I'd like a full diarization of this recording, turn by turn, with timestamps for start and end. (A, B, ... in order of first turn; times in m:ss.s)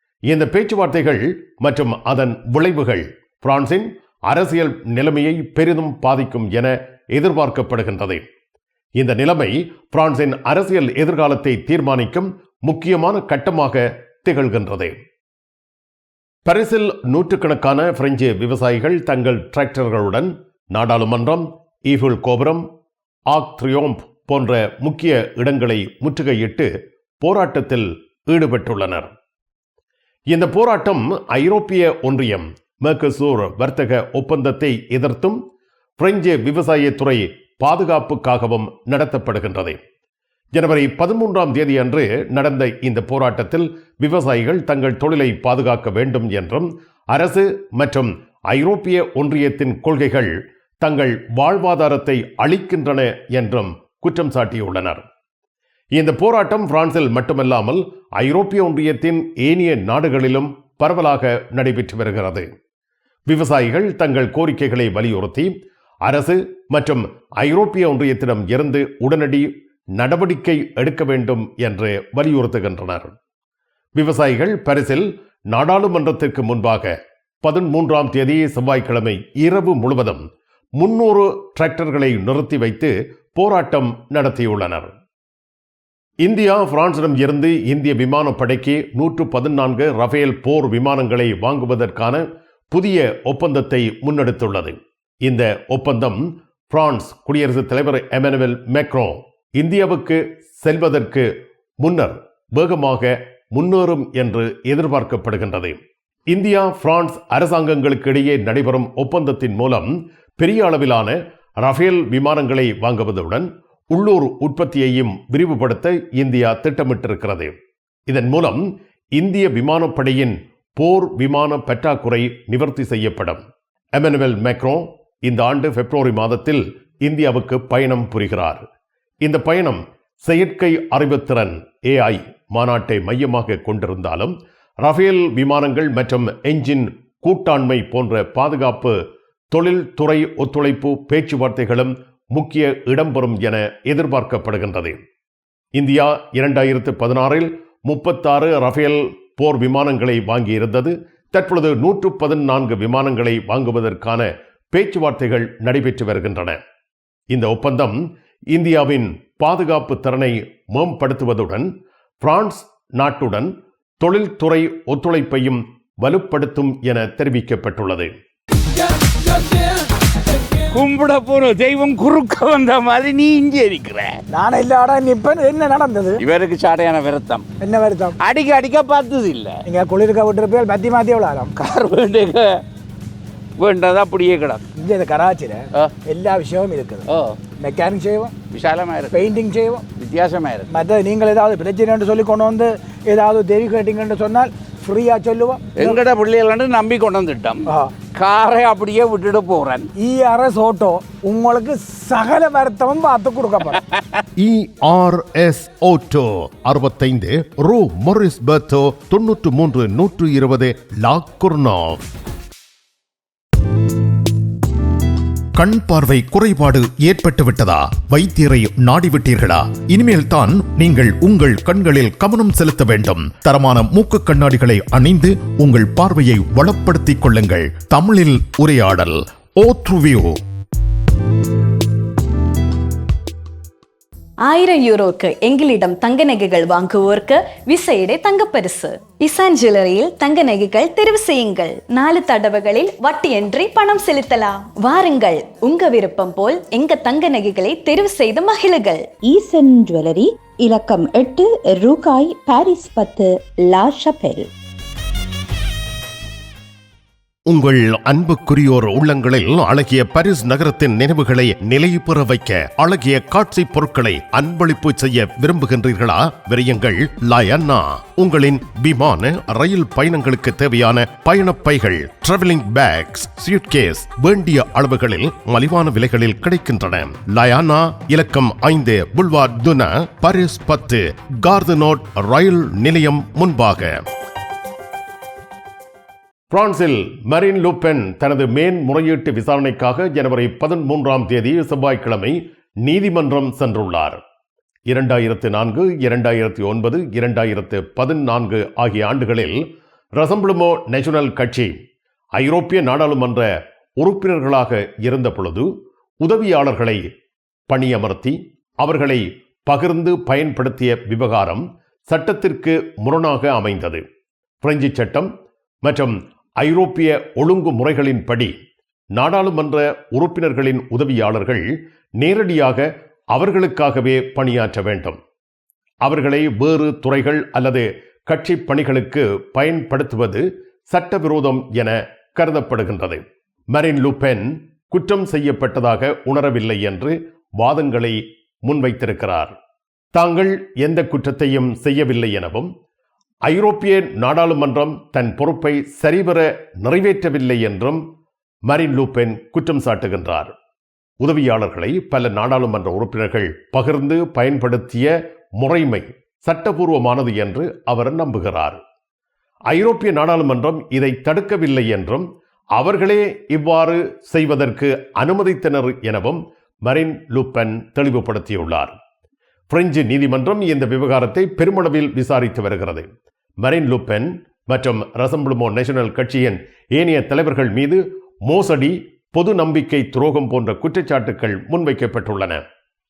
0:00.3-0:08.2 A
0:09.0-0:15.0 A
0:16.4-0:22.6 A
0:23.3-0:26.7 A
0:27.2-0:29.1 A
0:30.3-0:35.4 A
0:36.0-0:39.8 A
0:40.5-0:55.0 A
0:55.9-1:02.5 A
1:03.3-1:05.5 A
1:06.0-1:13.1 A
1:14.0-1:20.2 A
1:20.8-1:24.9 A
1:26.2-1:41.3 A
1:41.8-1:57.5 A
1:58.1-2:03.4 A
2:04.0-2:08.6 A
2:09.2-2:19.0 A
2:19.5-2:25.0 A
2:25.8-2:36.6 A
2:37.3-2:41.7 A
2:42.2-2:43.5 A
2:44.0-2:48.1 A
2:50.7-2:54.2 B
2:54.3-2:56.2 C
2:56.2-2:57.5 B
2:57.6-2:58.1 C
2:58.2-2:59.6 B
2:59.7-3:01.5 C
3:01.5-3:02.6 B
3:03.6-3:04.6 B
3:04.8-3:07.0 C
3:07.1-3:07.4 B
3:07.6-3:08.3 C
3:08.5-3:09.4 B
3:09.1-3:09.8 C
3:09.9-3:10.7 B
3:10.7-3:16.0 C
3:15.7-3:19.9 B
3:20.0-3:23.7 C
3:24.4-3:32.0 A
3:35.5-3:50.4 A
3:54.5-4:09.0 D
4:09.3-4:14.5 E
4:17.5-4:44.0 A
4:46.5-4:54.2 A
4:54.9-4:59.6 A
5:00.2-5:01.8 A
5:02.4-5:03.5 A
5:04.0-5:05.7 A
5:06.2-5:07.0 A
5:07.7-5:14.0 A
5:14.6-5:15.3 A
5:15.8-5:18.5 A
5:19.1-5:25.2 A
5:26.0-5:39.5 A
5:40.1-5:42.7 A
5:43.4-5:48.0 A
5:48.7-5:50.5 A
5:51.2-5:58.8 A
5:59.7-6:08.9 A
6:09.7-6:13.1 A
6:13.6-6:22.6 A